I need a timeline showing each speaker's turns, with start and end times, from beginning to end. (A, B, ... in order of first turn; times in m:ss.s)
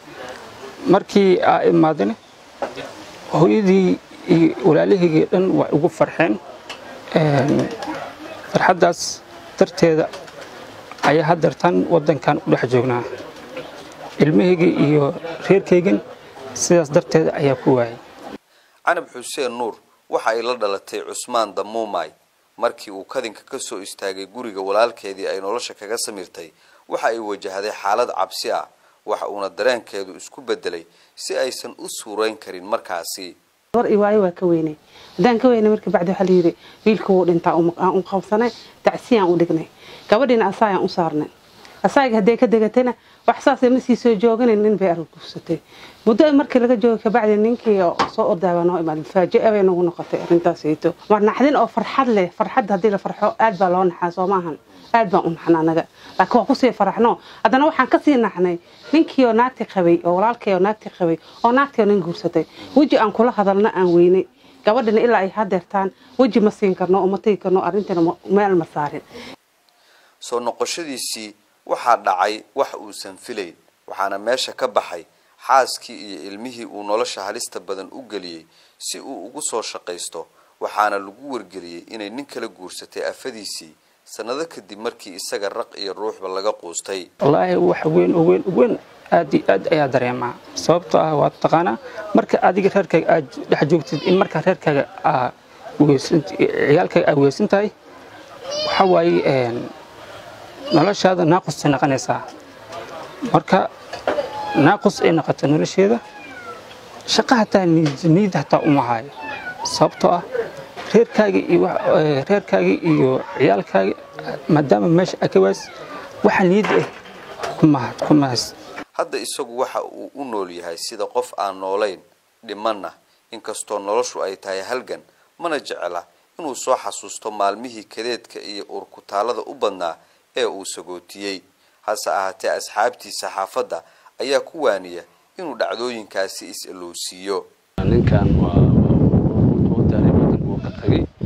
0:00.8-0:02.2 A
0:03.3-0:06.4 A
0:07.2-0:07.7 A
0:08.5-0:10.1 A
0:11.0-0:13.0 A
0:14.2-0:16.0 A
0:16.6-0:18.0 A
0:18.9-0:33.4 B
0:33.7-0:41.3 C
0:41.8-1:09.0 C
1:10.2-1:27.1 B
1:27.2-1:37.7 A
1:38.6-1:39.6 A
1:40.7-1:42.2 A
1:43.3-1:43.7 A
1:44.6-1:46.0 A
1:47.1-1:49.1 A
1:49.7-1:50.2 A
1:50.9-1:55.6 A
1:56.2-1:56.9 A
1:57.6-1:58.5 A
1:59.0-2:17.4 B
2:17.8-2:21.1 D